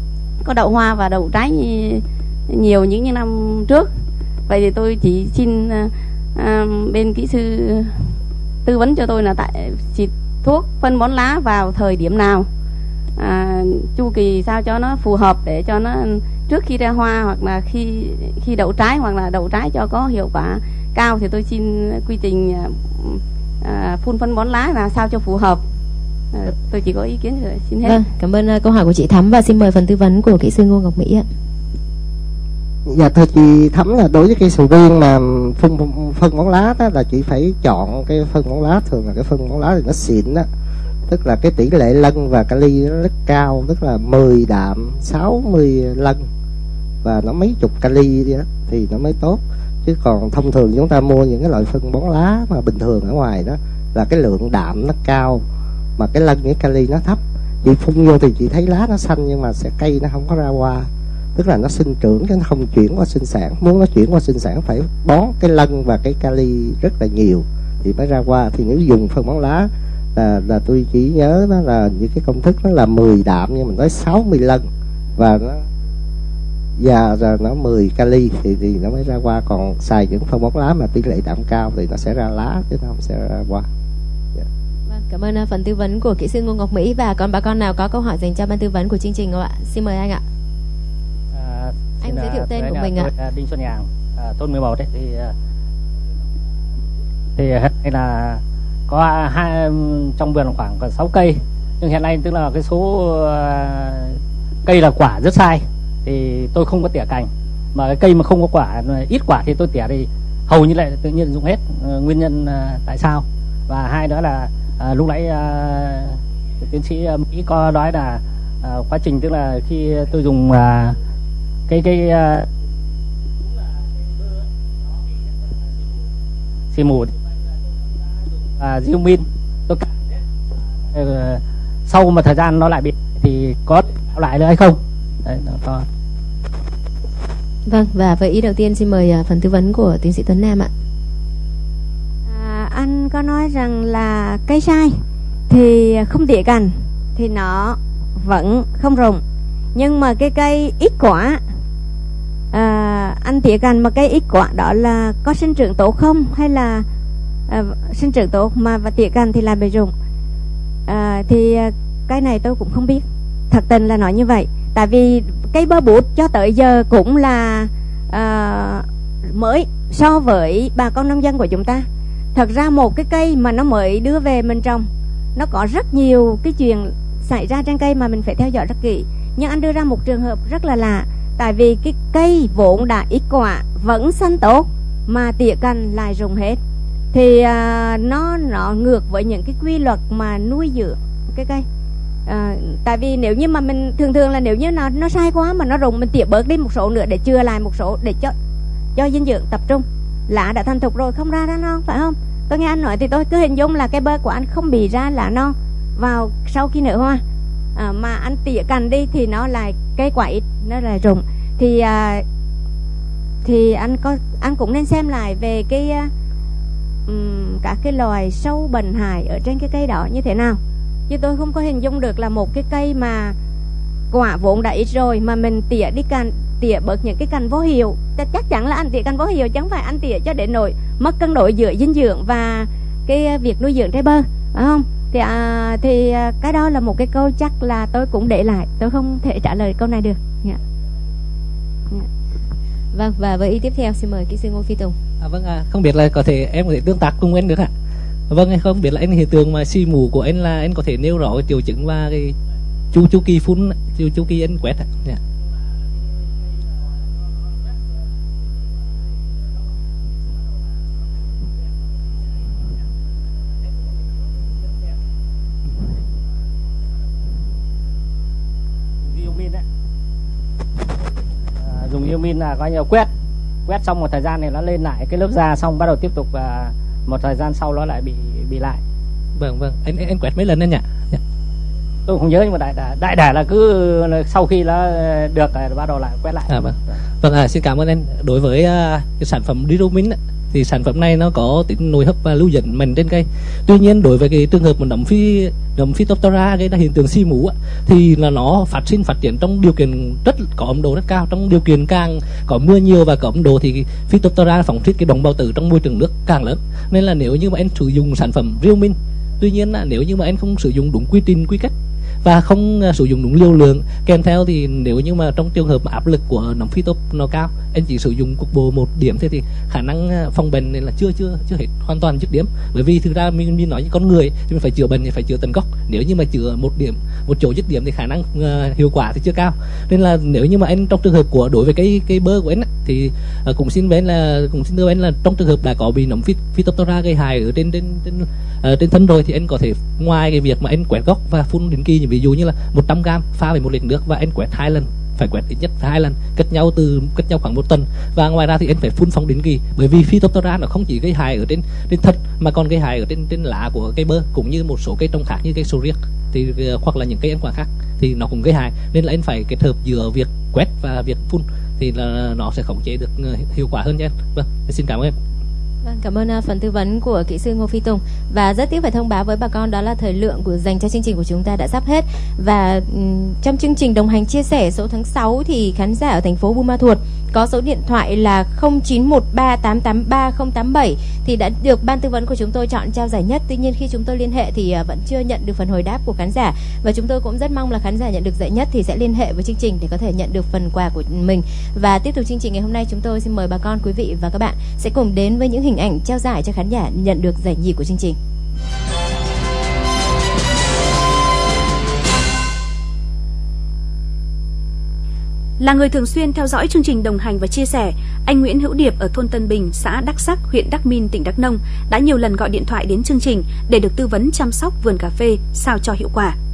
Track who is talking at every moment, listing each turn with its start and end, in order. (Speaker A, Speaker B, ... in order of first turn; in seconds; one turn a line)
Speaker A: 0.4-3.9
Speaker A: 4.5-12.5
Speaker A: 13.2-25.6
Speaker A: 26.3-28.0
Speaker B: 27.8-31.2
Speaker C: 32.9-40.5
Speaker C: 41.1-46.2
Speaker C: 47.0-55.4
Speaker C: 56.0-74.7
Speaker C: 75.2-75.6
Speaker C: 76.8-83.7
Speaker B: 84.9-90.2
Speaker D: 91.3-95.3
Speaker B: 92.0-93.1
Speaker D: 97.4-121.0
Speaker D: 121.7-122.5
Speaker D: 126.7-127.1
Speaker D: 128.6-129.9
Speaker D: 130.9-135.8
Speaker B: 137.7-140.7
Speaker E: 142.3-149.2
Speaker E: 149.7-151.4
Speaker E: 152.5-156.8
Speaker E: 157.5-159.9
Speaker E: 160.9-186.6
Speaker E: 187.1-191.7
Speaker E: 192.2-198.3
Speaker E: 198.9-207.2
Speaker E: 207.8-212.2
Speaker E: 213.4-216.1
Speaker E: 217.1-223.3
Speaker E: 224.1-240.6
Speaker B: 242.9-244.9
Speaker F: 245.2-247.7
Speaker F: 248.3-252.3
Speaker F: 252.9-255.2
Speaker D: 269.0-269.6
Speaker D: 271.6-273.1
Speaker D: 273.6-278.8
Speaker F: 279.4-281.2
Speaker D: 282.1-287.0
Speaker F: 286.5-365.1
Speaker B: 365.8-398.2
Speaker G: 405.6-416.4